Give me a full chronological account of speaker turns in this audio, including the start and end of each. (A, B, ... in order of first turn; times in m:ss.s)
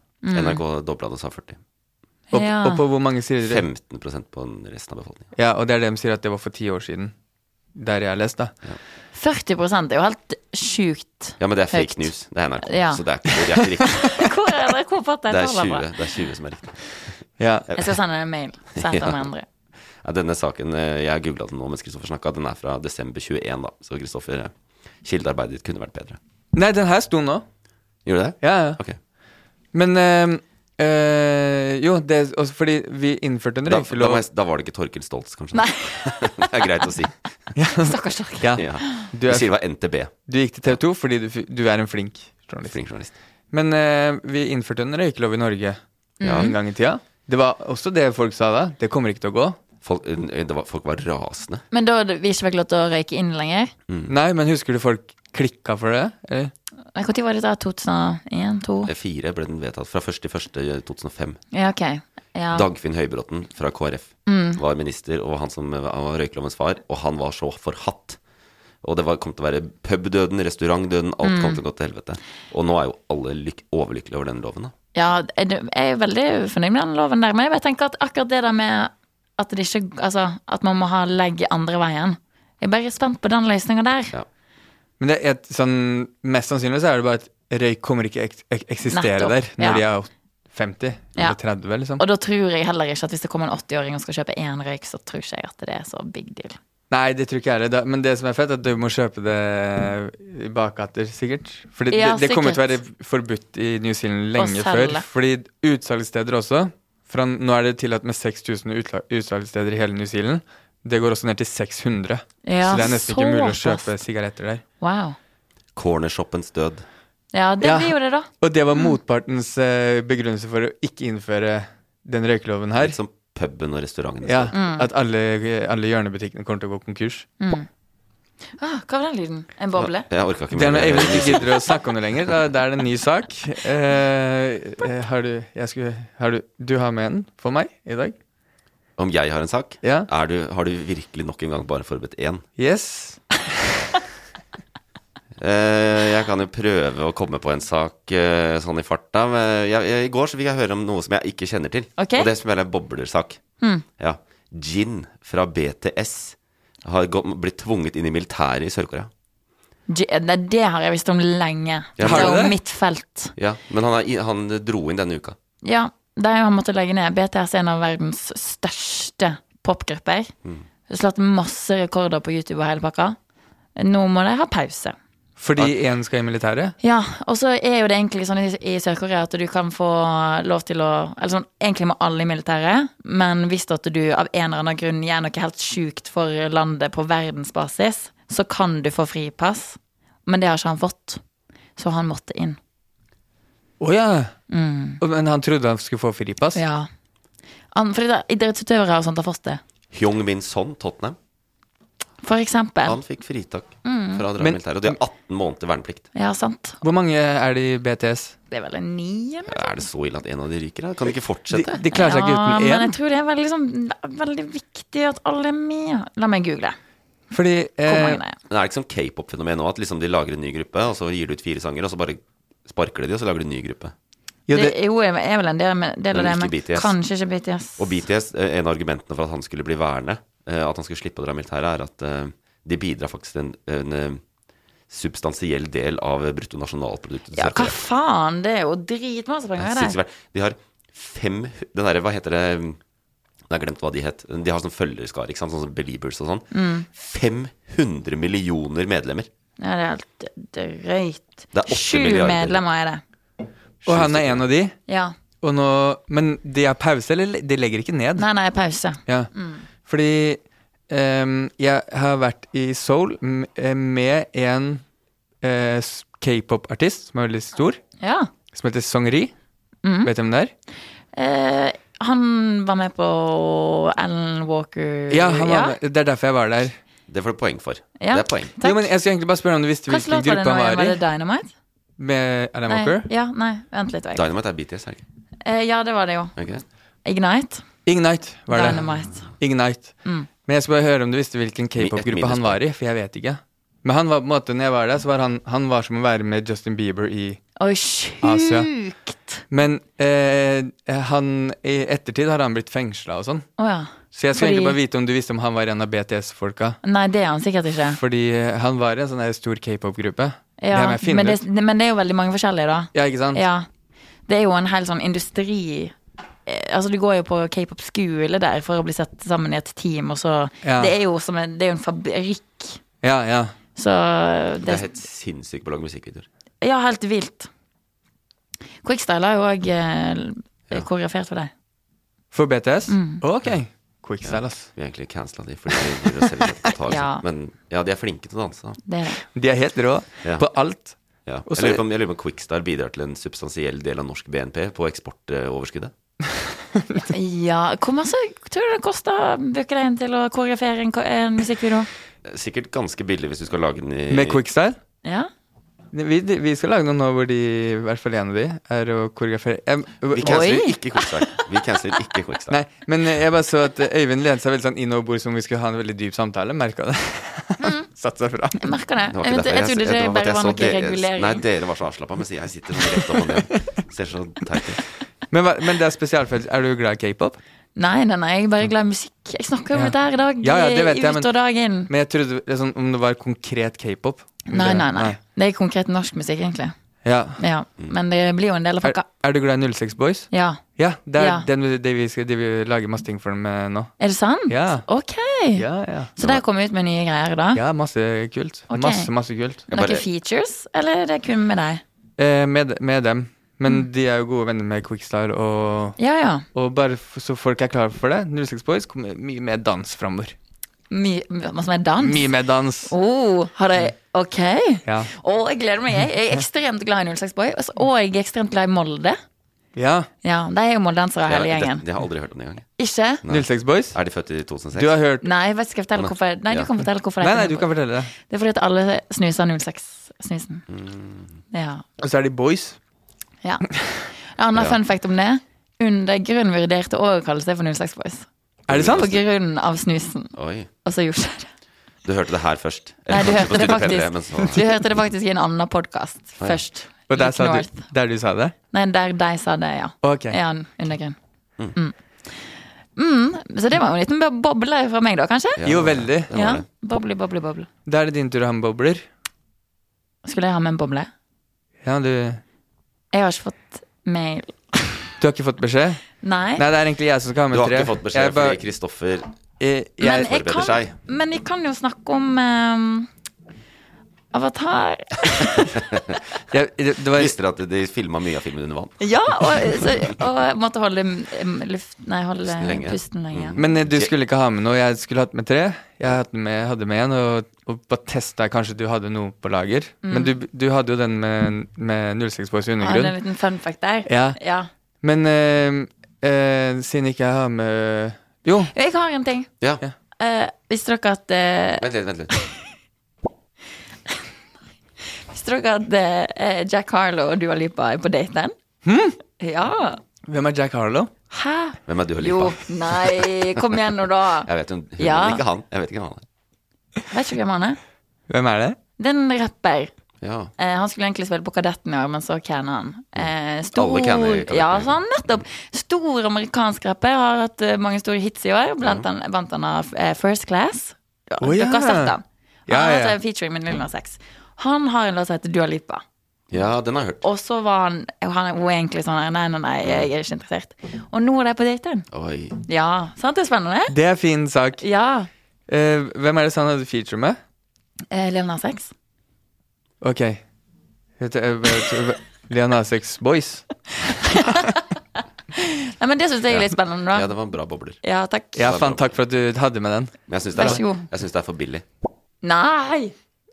0:00.2-0:00.6 A
0:00.3-0:01.6 B
0:02.3-0:02.8 A
0:02.3-0:03.6 C
0:03.4-0:05.3 B
0:05.4-0:07.1 C
0:07.7-0:08.5 C
0:09.1-0:12.1 A
0:11.4-0:14.3 B
0:12.6-0:13.0 A
0:13.8-0:15.9 A
0:15.3-0:18.0 B
0:17.4-0:17.7 C
0:17.8-0:19.4 A
0:18.8-0:19.2 B
0:20.0-0:26.2 B
0:26.5-0:27.4 C
0:28.0-0:29.0 B
0:28.4-0:28.8 C
0:29.7-0:34.2 C
0:33.6-0:37.1 B
0:35.5-0:36.6 A
0:37.5-0:39.5 C
0:37.8-0:39.0 A
0:38.6-0:40.1 B
0:40.1-0:42.8 C
0:42.6-0:43.1 B
0:43.5-0:49.6 C
0:46.2-0:46.6 A
0:46.2-0:46.5 B
0:49.8-0:51.6 B
0:51.7-0:53.7 A
0:54.1-0:56.5 C
0:56.9-0:58.9 A
0:58.8-1:01.4 B
1:01.5-1:02.7 A
1:02.5-1:08.2 B
1:04.3-1:04.6 A
1:08.8-1:14.7 B
1:11.2-1:11.6 A
1:14.9-1:24.1 A
1:25.0-1:32.0 C
1:28.9-1:29.8 A
1:32.0-1:36.6 A
1:36.9-1:54.6 C
1:41.9-1:42.8 A
1:44.4-1:45.0 A
1:52.4-1:53.9 A
1:54.8-1:55.2 A
1:55.7-1:56.8 B
1:57.3-1:59.0 A
1:57.6-2:03.0 C
2:02.8-2:04.5 B
2:04.2-2:07.3 C
2:04.5-2:04.9 A
2:07.4-2:07.7 A
2:08.6-2:10.0 A
2:09.8-2:11.6 B
2:10.5-2:18.2 C
2:19.0-2:22.4 B
2:19.8-2:20.1 C
2:22.6-2:23.3 C
2:25.4-2:33.4 B
2:32.0-2:32.3 A
2:34.0-2:39.1 B
2:39.9-2:43.3 A
2:42.0-2:42.3 B
2:42.0-2:42.5 C
2:43.4-2:45.4 B
2:45.6-2:50.3 A
2:50.9-2:53.2 A
2:53.8-2:55.0 A
2:55.4-2:56.7 C
2:56.8-3:11.2 A
3:11.8-3:12.6 A
3:13.8-3:14.3 C
3:14.5-3:15.0 A
3:15.0-3:16.6 C
3:16.5-3:16.9 A
3:17.7-3:19.6 A
3:19.9-3:21.2 B
3:22.2-3:23.0 A
3:22.8-3:26.0 B
3:23.8-3:24.3 A
3:24.4-3:24.9 C
3:26.1-3:26.8 A
3:26.8-3:28.3 C
3:28.5-3:29.8 A
3:29.5-3:31.8 B
3:31.5-3:32.9 C
3:31.9-3:36.8 A
3:37.3-3:38.2 C
3:37.9-3:38.4 A
3:38.5-3:43.9 B
3:44.5-3:44.7 C
3:44.5-3:47.9 A
3:46.1-3:46.9 B
3:47.8-3:54.2 B
3:54.9-3:57.8 B
3:57.3-4:00.0 A
3:59.6-4:02.8 B
4:03.5-4:09.3 B
4:06.5-4:06.8 A
4:09.6-4:13.0 A
4:11.5-4:12.6 B
4:13.8-4:14.4 B
4:13.8-4:14.7 C
4:14.9-4:15.1 A
4:15.4-4:18.2 C
4:18.2-4:19.6 A
4:19.8-4:24.8 C
4:25.4-4:27.8 C
4:28.0-4:28.3 A
4:28.5-4:29.3 C
4:29.8-4:30.1 A
4:30.0-4:30.5 C
4:31.1-4:35.8 A
4:35.1-4:36.8 C
4:37.1-4:38.5 B
4:38.0-4:38.9 A
4:38.6-4:41.0 C
4:39.9-4:41.5 A
4:42.0-4:43.1 C
4:42.7-4:44.2 A
4:44.1-4:45.0 B
4:45.4-4:46.3 A
4:46.4-4:46.6 B
4:47.0-4:47.7 A
4:47.8-4:57.4 C
4:48.5-4:49.3 A
4:51.8-4:52.6 B
4:57.6-4:59.4 A
4:58.2-4:58.7 C
4:59.5-5:03.4 C
5:03.6-5:04.8 A
5:04.1-5:06.8 C
5:06.8-5:08.0 A
5:07.8-5:11.4 C
5:10.6-5:13.7 A
5:12.9-5:13.4 C
5:14.3-5:15.9 A
5:16.4-5:22.8 A
5:20.6-5:20.9 C
5:23.0-5:23.5 C
5:23.8-5:24.9 A
5:24.6-5:26.3 B
5:26.6-5:27.5 A
5:28.8-5:31.5 A
5:32.3-5:34.7 C
5:32.9-5:33.2 A
5:34.2-5:38.8 B
5:36.9-5:37.2 A
5:38.8-5:39.2 A
5:39.2-5:41.8 C
5:40.2-5:40.5 B
5:41.2-5:45.9 B
5:47.0-5:51.9 A
5:52.2-5:54.4 B
5:54.1-5:54.8 C
5:55.0-5:55.3 A
5:55.9-6:00.7 C
6:00.1-6:02.6 B
6:00.2-6:01.1 A
6:02.5-6:08.6 C
6:07.6-6:07.9 A
6:08.6-6:11.4 A
6:09.1-6:14.8 B
6:15.3-6:17.4 C
6:17.8-6:21.9 A
6:19.7-6:21.3 C
6:21.9-6:25.2 C
6:24.5-6:26.7 A
6:27.0-6:27.4 C
6:27.4-6:29.0 A
6:28.8-6:33.9 C
6:30.3-6:30.6 A
6:31.2-6:31.5 A
6:34.0-6:37.6 A
6:34.5-6:34.8 C
6:35.6-6:36.1 C
6:37.5-6:39.6 C
6:38.7-6:39.1 A
6:39.7-6:40.0 B
6:39.7-6:41.8 A
6:42.2-6:46.0 C
6:46.0-6:46.4 A
6:46.5-6:50.3 C
6:50.9-6:59.2 A
6:52.0-6:52.9 C
6:59.8-7:00.1 C
7:00.2-7:01.8 A
7:01.2-7:02.6 B
7:02.8-7:03.2 A
7:03.2-7:05.0 B
7:03.3-7:04.0 C
7:04.7-7:05.2 C
7:05.2-7:10.6 A
7:06.0-7:06.7 B
7:07.2-7:08.1 C
7:10.7-7:11.4 B
7:11.5-7:11.8 A
7:12.0-7:12.8 C
7:14.3-7:18.2 A
7:18.7-7:19.2 B
7:18.7-7:19.0 C
7:18.8-7:20.3 A
7:20.4-7:20.7 B
7:20.8-7:21.5 A
7:22.0-7:24.9 B
7:23.1-7:27.9 A
7:27.1-7:28.5 C
7:28.7-7:31.2 A
7:30.0-7:30.4 C
7:31.7-7:35.6 A
7:35.6-7:36.6 B
7:35.6-7:36.3 C
7:36.3-7:37.7 A
7:37.9-7:39.0 C
7:40.2-7:41.1 A
7:41.8-7:42.4 C
7:43.1-7:44.9 A
7:45.2-7:46.0 C
7:46.2-7:46.6 A
7:46.6-7:48.6 C
7:47.5-7:49.3 B
7:49.6-7:50.3 C
7:50.0-7:53.1 A
7:50.1-7:50.9 B
7:54.3-7:56.0 A
7:55.7-7:56.2 B
7:56.5-7:57.3 C
7:57.2-7:59.1 B
7:59.0-8:03.6 A
8:02.4-8:04.1 B
8:03.6-8:13.1 C
8:10.0-8:10.3 A
8:12.8-8:14.7 A
8:14.0-8:14.4 C
8:15.0-8:18.7 C
8:18.7-8:19.5 A
8:20.2-8:22.4 A
8:21.8-8:22.3 B
8:25.3-8:28.5 A
8:28.8-8:29.2 C
8:29.4-8:30.0 A
8:30.3-8:31.1 C
8:31.3-8:35.4 A
8:31.9-8:33.4 B
8:34.4-8:36.2 B
8:37.1-8:37.8 A
8:38.3-8:38.8 C
8:39.0-8:39.9 A
8:40.2-8:40.5 B
8:40.6-8:56.0 A
8:43.2-8:45.0 B
8:48.8-8:49.0 B
8:51.4-8:52.2 C
8:52.7-8:53.2 C
8:56.5-8:57.2 B
8:57.2-9:02.1 A
8:59.8-9:00.1 B
9:02.1-9:02.6 B
9:02.6-9:03.9 A
9:03.9-9:04.8 C
9:04.8-9:05.3 A
9:05.7-9:07.4 C
9:08.1-9:08.9 A
9:10.0-9:10.4 C
9:11.2-9:13.6 C
9:14.2-9:14.8 A
9:15.5-9:17.3 A
9:16.5-9:18.0 B
9:18.0-9:18.7 A
9:18.5-9:20.8 C
9:18.6-9:19.1 B
9:20.3-9:21.8 B
9:20.6-9:21.0 A
9:22.4-9:23.1 A